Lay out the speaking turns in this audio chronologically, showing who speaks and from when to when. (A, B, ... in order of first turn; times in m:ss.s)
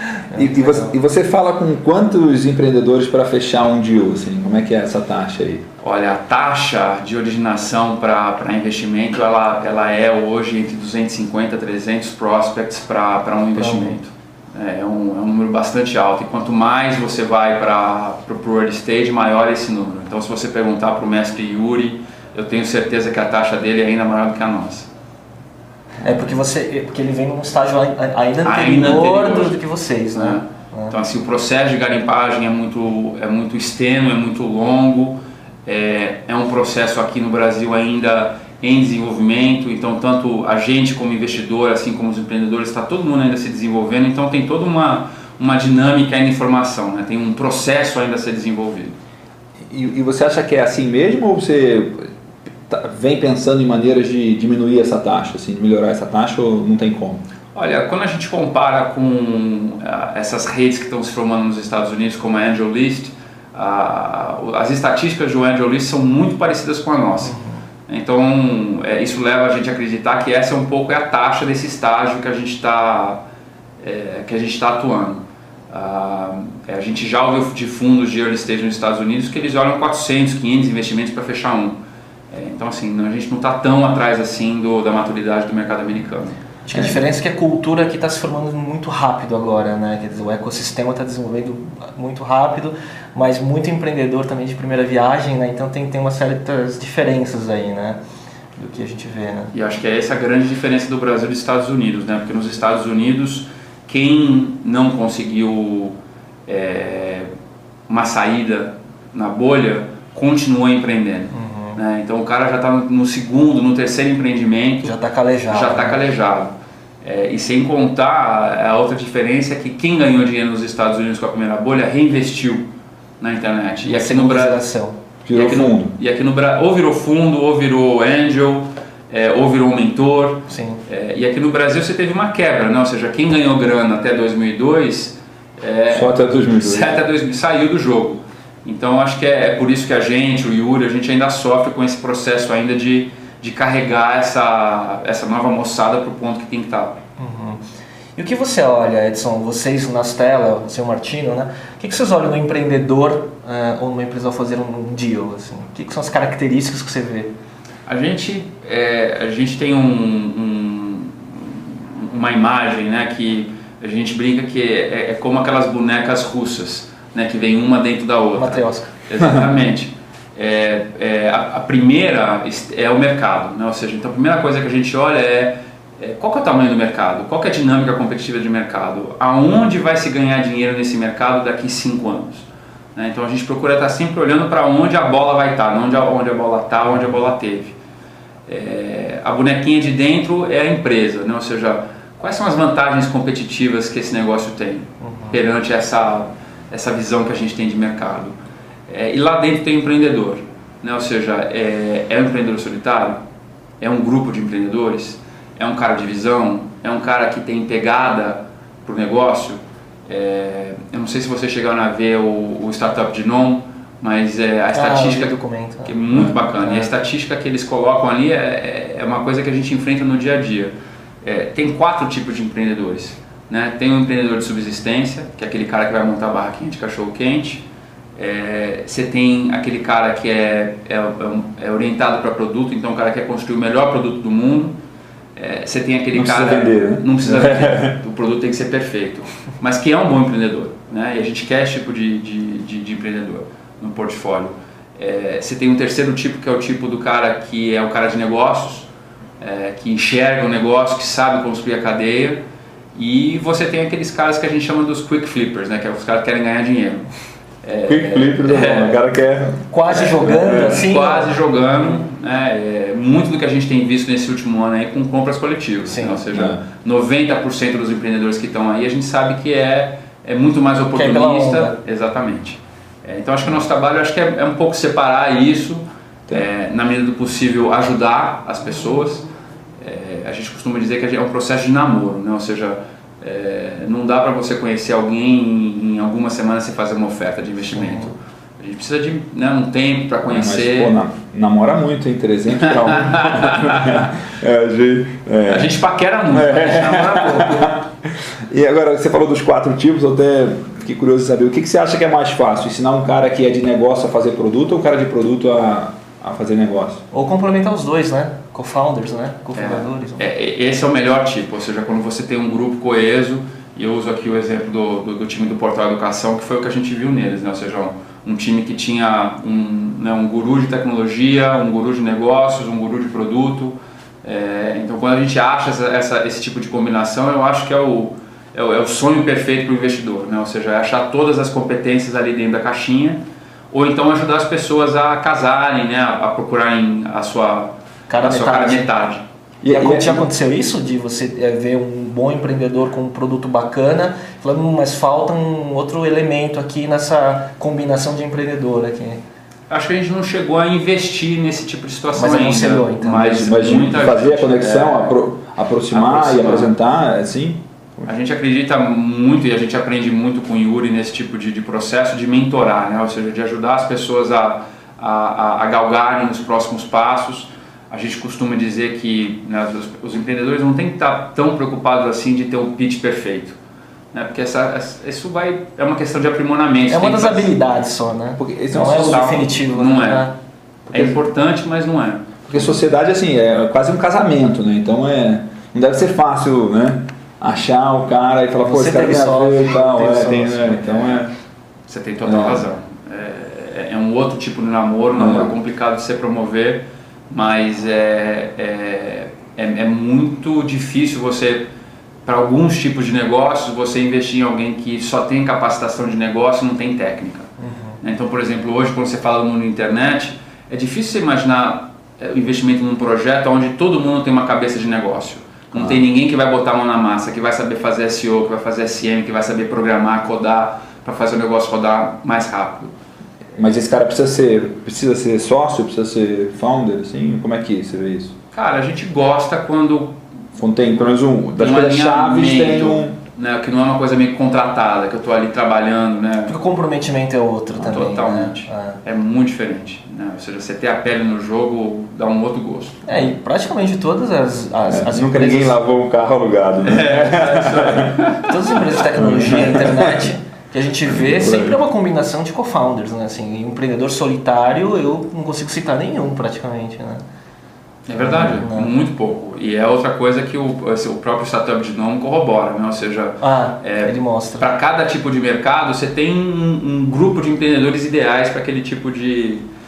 0:00.1-0:00.9 A
0:00.3-0:05.6 B
0:05.8-0:24.9 C
0:13.6-0:14.0 A
0:26.0-0:31.0 A
0:28.4-0:29.6 C
0:30.1-0:49.0 C
0:49.7-0:52.1 B
0:52.7-0:57.2 B
0:57.6-1:07.4 C
1:07.2-1:07.6 A
1:07.9-1:13.2 C
1:13.8-1:21.8 C
1:22.3-1:26.4 C
1:26.6-1:38.0 A
1:38.6-1:39.5 A
1:39.5-1:46.0 C
1:46.5-1:47.3 C
1:47.9-1:55.0 C
1:51.3-1:51.8 A
1:54.8-1:56.0 A
1:55.5-2:02.7 C
2:03.2-2:04.6 C
2:03.8-2:05.0 A
2:05.3-2:05.9 B
2:05.3-2:27.0 C
2:10.5-2:10.8 A
2:15.9-2:17.0 B
2:27.2-2:27.6 A
2:28.2-2:37.3 A
2:37.9-3:07.8 C
2:48.4-2:48.9 A
3:08.5-3:18.4 C
3:15.0-3:15.4 A
3:18.9-3:23.2 C
3:23.8-3:47.6 C
3:34.7-3:36.0 A
3:36.6-3:36.9 A
3:48.2-3:54.8 C
3:55.4-4:08.9 C
3:56.1-3:58.0 B
4:09.4-4:12.4 C
4:13.0-4:17.1 C
4:17.6-4:19.0 C
4:17.9-4:20.9 B
4:19.7-4:22.0 A
4:19.9-4:39.3 C
4:25.8-4:26.3 A
4:26.3-4:26.6 B
4:30.9-4:31.8 A
4:39.8-4:51.0 C
4:47.7-4:48.1 A
4:50.3-4:55.8 B
4:52.6-4:54.1 C
4:55.5-4:57.8 C
4:56.3-4:57.9 B
4:58.5-5:07.0 B
5:07.1-5:10.3 A
5:09.6-5:39.2 C
5:38.1-5:38.9 A
5:39.6-5:40.3 B
5:39.7-5:49.2 A
5:49.7-5:55.2 C
5:52.2-5:53.8 A
5:53.1-5:58.1 B
5:55.9-5:56.7 C
5:58.0-6:13.6 C
6:14.1-6:17.6 C
6:16.9-6:20.4 A
6:18.4-6:19.4 B
6:18.8-6:20.3 C
6:20.9-6:21.2 B
6:20.9-6:22.6 C
6:22.5-6:31.3 B
6:28.6-6:30.9 A
6:30.9-6:31.2 C
6:31.9-6:41.7 C
6:32.2-6:32.7 B
6:35.2-6:35.6 B
6:42.2-6:47.5 C
6:47.6-6:48.0 A
6:48.0-7:02.9 C
6:55.8-6:56.0 B
7:03.6-7:08.4 B
7:08.5-7:10.2 C
7:10.6-7:13.2 B
7:11.6-7:16.6 C
7:16.5-7:19.0 A
7:17.8-7:23.2 C
7:23.1-7:25.8 A
7:24.9-7:28.3 B
7:26.8-7:28.8 C
7:28.4-7:37.2 A
7:29.2-7:30.3 B
7:31.1-7:31.8 B
7:38.1-7:49.6 C
7:38.2-7:38.9 A
7:43.4-7:44.7 A